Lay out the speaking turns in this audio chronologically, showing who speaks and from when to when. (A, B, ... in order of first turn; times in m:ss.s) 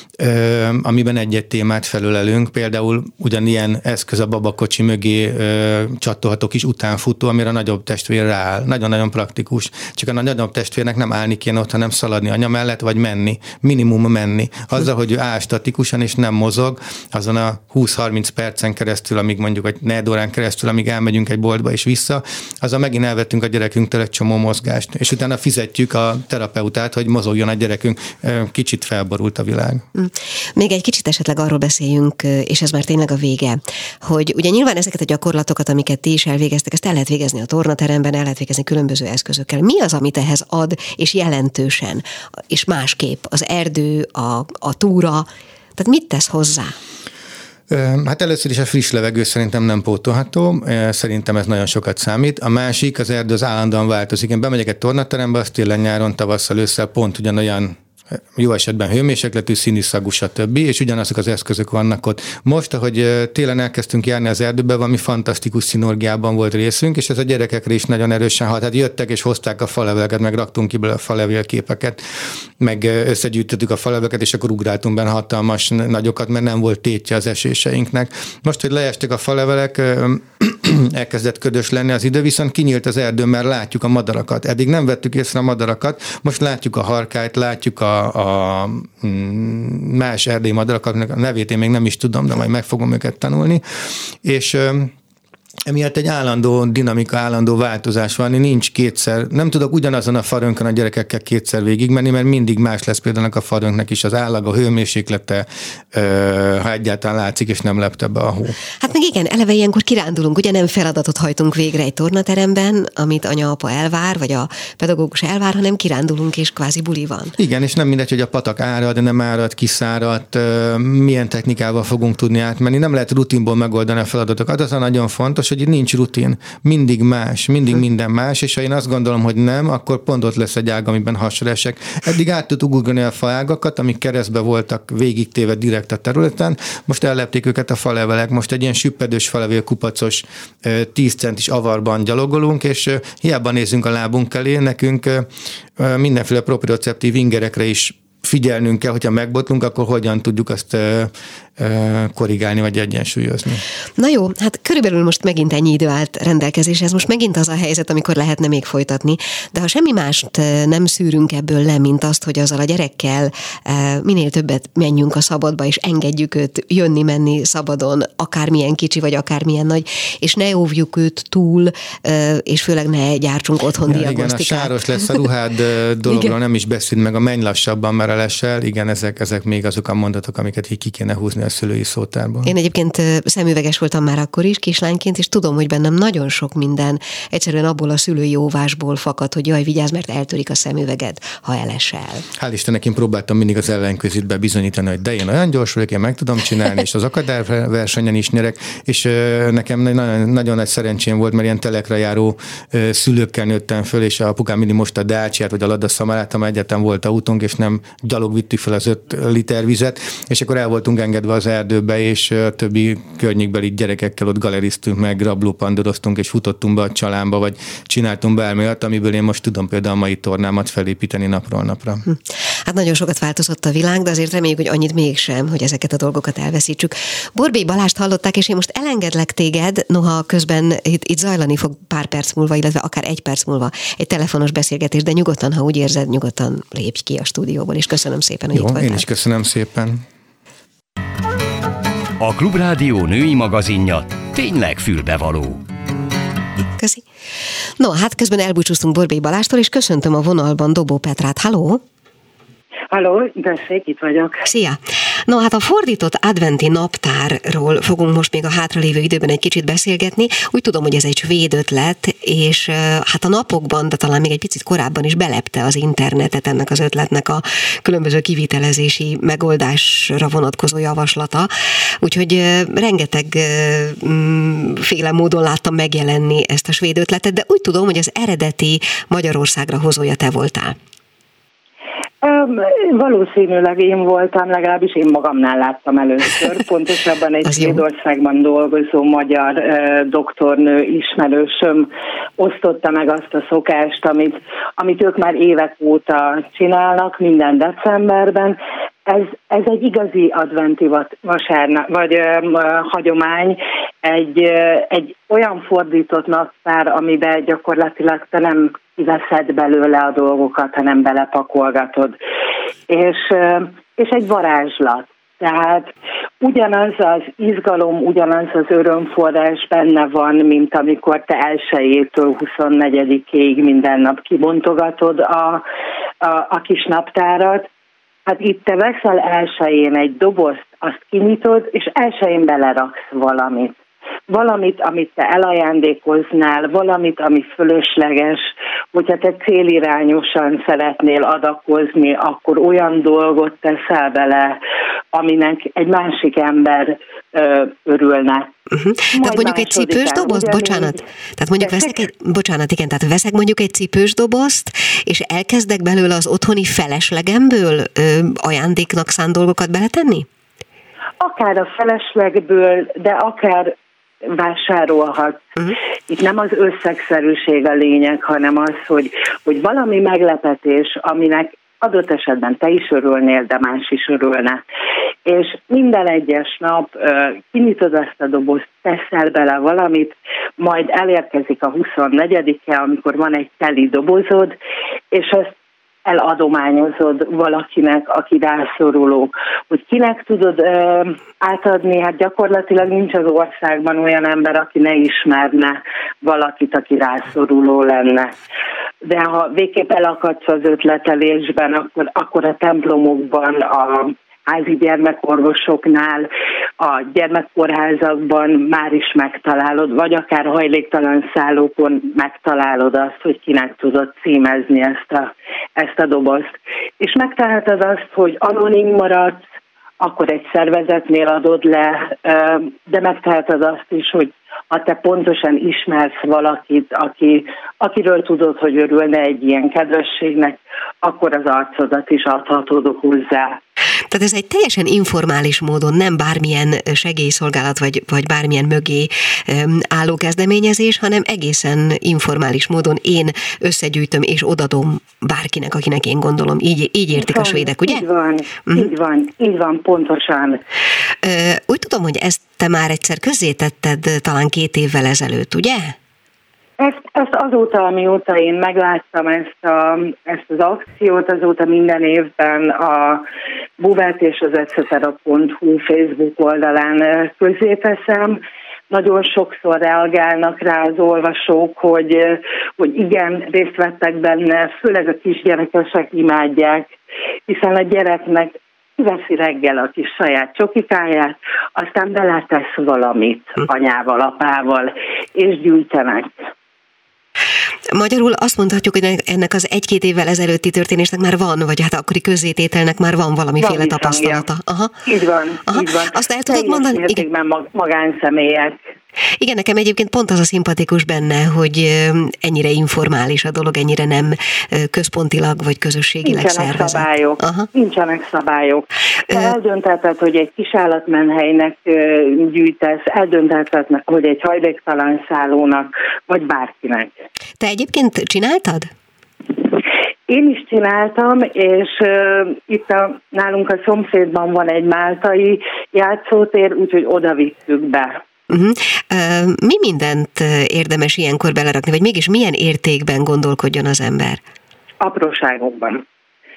0:00.2-0:29.8 A
0:29.9-0:46.8 B
0:47.7-0:57.8 A
0:58.4-1:34.9 A
1:35.7-1:48.6 A
1:48.8-1:57.4 B
1:57.4-2:33.6 A
2:34.0-2:55.2 B
2:53.8-3:02.5 A
2:56.1-2:56.3 B
3:02.4-3:12.2 B
3:12.4-3:42.0 A
3:42.1-3:59.0 B
3:58.5-4:00.0 A
4:02.2-4:05.6 C
4:06.8-4:07.0 B
4:07.8-4:11.8 B
4:12.9-4:14.4 D
4:14.4-4:31.5 B
4:32.0-4:40.8 B
4:42.2-5:12.2 D
4:47.5-4:47.8 B
5:12.9-5:25.6 D
5:26.2-5:27.7 D
5:28.2-5:44.6 D
5:45.1-5:48.5 D
5:48.7-6:00.3 B
5:49.1-5:51.0 D
5:51.6-5:51.9 D
6:01.2-6:03.7 D
6:04.2-6:05.5 D
6:06.1-6:14.6 D
6:15.2-6:24.5 D
6:25.1-6:38.3 D
6:39.0-6:46.3 D
6:46.8-6:59.4 D
7:00.0-7:13.6 D
7:14.1-7:28.0 B
7:27.1-7:30.6 D
7:31.2-7:36.0 B
7:36.8-7:43.2 D
7:43.8-7:48.4 D
7:48.9-7:56.9 D
7:57.5-8:06.3 D
8:07.9-8:15.0 B
8:13.6-8:14.5 D
8:15.0-8:18.8 D
8:15.7-8:17.2 B
8:19.4-8:27.7 B
8:26.2-8:37.1 D
8:37.6-8:38.9 B
8:40.3-8:48.2 D
8:48.5-8:54.4 B
8:55.0-8:56.0 D